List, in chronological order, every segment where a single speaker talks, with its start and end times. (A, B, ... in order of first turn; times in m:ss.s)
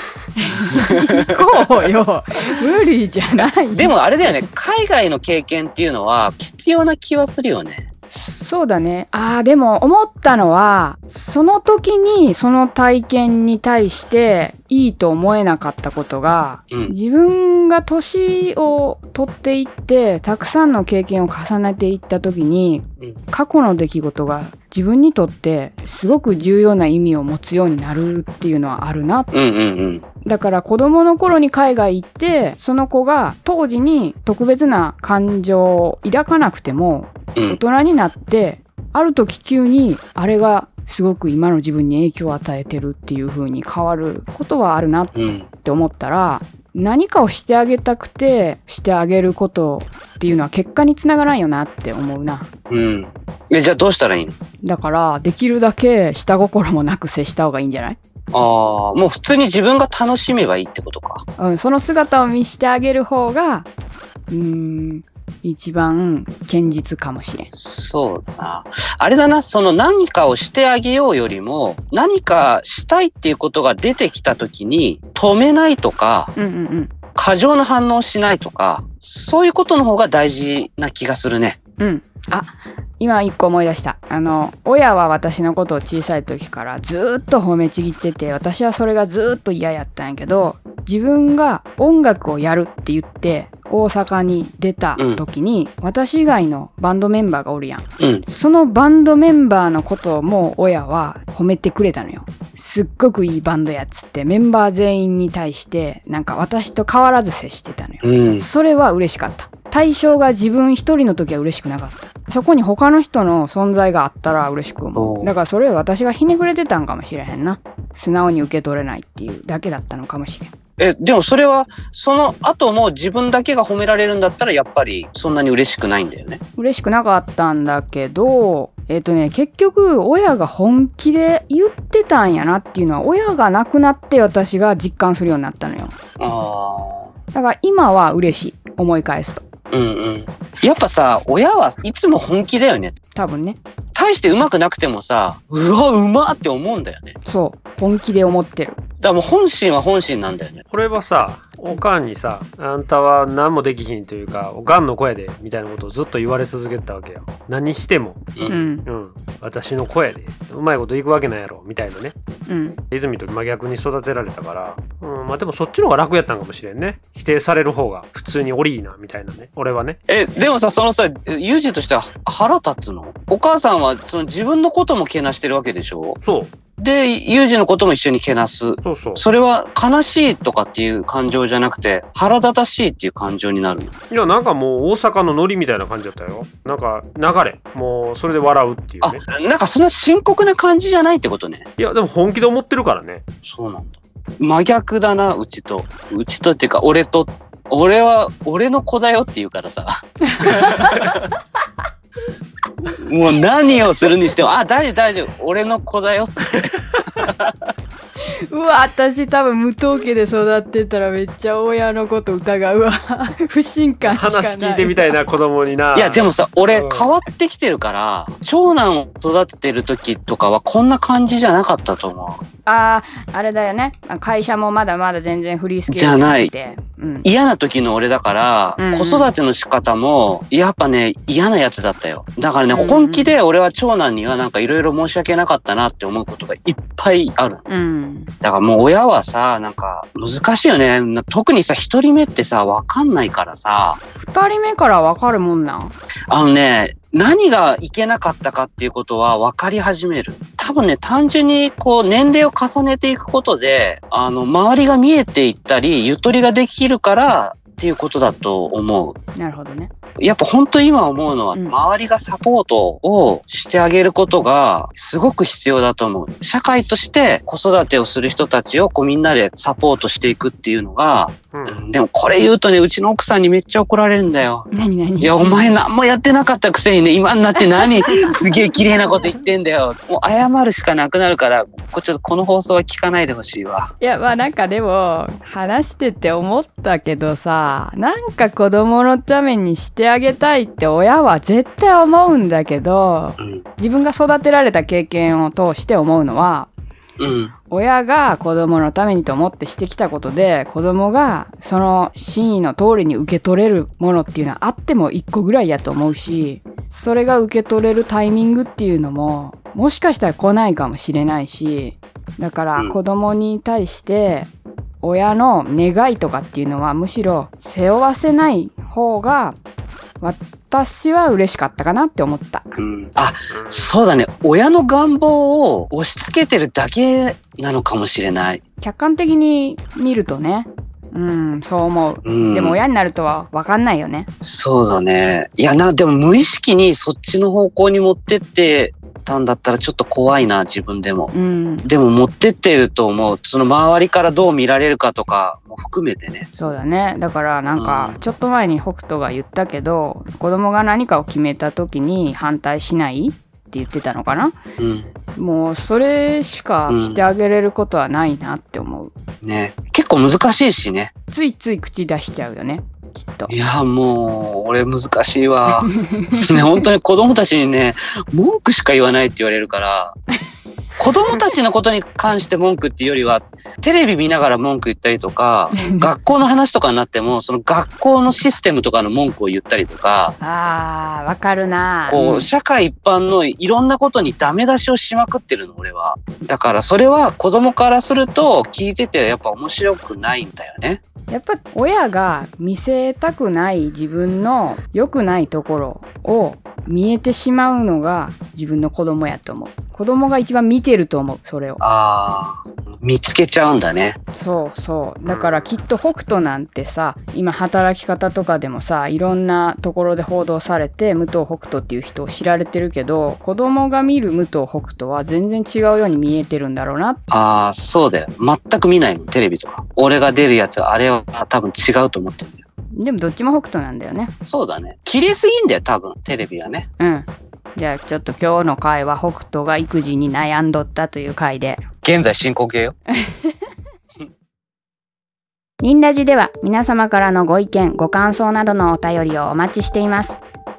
0:00.4-0:03.9 A
0:00.6-0:01.5 B
0:03.7-0:07.9 B
0:08.1-0:29.3 A
0:29.3-0:30.0 B
0:30.2-0:45.1 A
0:45.1-0:45.5 B
0:45.6-0:52.5 A
0:52.7-0:54.4 B
0:54.6-0:58.0 A
0:58.3-1:01.2 B
1:01.4-1:03.7 A
1:04.3-1:07.5 A
1:07.5-1:16.3 B
1:16.4-1:16.9 A
1:17.2-1:21.6 B
1:21.8-2:00.5 A
1:38.0-1:38.2 B
1:48.0-1:48.5 B
1:55.0-1:55.3 B
2:00.8-2:06.4 B
2:06.6-2:16.0 A
2:16.2-2:17.1 B
2:17.3-2:19.4 A
2:19.7-2:23.0 B
2:23.2-2:23.6 A
2:23.9-2:27.2 B
2:27.2-2:28.8 A
2:29.0-2:30.6 B
2:30.7-2:38.3 C
2:38.4-2:38.6 B
2:38.5-2:38.8 A
2:38.8-2:42.1 C
2:42.5-2:42.8 A
2:42.9-2:50.0 C
2:50.1-2:56.2 B
2:56.2-2:56.5 C
2:56.8-3:04.0 B
2:58.8-2:59.2 C
3:04.1-3:09.2 C
3:09.0-3:11.7 B
3:11.8-3:13.2 C
3:13.4-3:21.2 B
3:20.4-3:21.2 A
3:23.0-3:27.6 B
3:28.2-3:35.2 A
3:34.0-3:37.1 C
3:35.9-3:42.4 B
3:42.7-3:47.3 A
3:45.9-3:46.5 B
3:47.2-3:57.6 B
3:48.8-3:49.3 A
3:52.7-3:53.3 A
3:57.7-3:58.3 A
3:58.4-4:04.0 B
4:04.2-4:06.0 A
4:06.3-4:19.2 B
4:19.4-4:19.9 A
4:20.2-4:34.7 B
4:31.5-4:31.8 C
4:34.7-4:35.6 A
4:35.2-4:43.9 B
4:44.0-4:56.7 A
4:53.4-4:53.6 B
4:57.2-4:57.5 B
4:57.7-5:14.5 A
5:15.0-5:19.6 A
5:20.2-5:22.8 A
5:22.8-5:28.6 B
5:23.5-5:23.9 C
5:28.8-5:34.3 A
5:32.2-5:32.8 B
5:34.4-5:41.3 B
5:41.3-5:41.9 A
5:41.8-5:46.5 B
5:46.6-5:54.5 A
5:47.7-5:48.2 B
5:54.8-5:55.1 B
5:55.4-5:59.1 A
5:56.9-5:57.2 B
5:59.4-6:01.1 B
6:01.3-6:03.5 A
6:03.5-6:10.2 B
6:06.0-6:06.7 A
6:11.0-6:20.4 B
6:15.8-6:16.1 A
6:20.4-6:22.5 A
6:22.1-6:31.0 B
6:31.3-6:41.8 A
6:41.8-6:44.2 B
6:44.4-6:57.2 A
6:45.3-6:45.7 C
6:57.3-7:02.6 B
7:03.0-7:04.3 A
7:04.5-7:06.9 B
7:07.0-7:11.8 A
7:12.0-7:13.0 B
7:15.8-7:20.4 A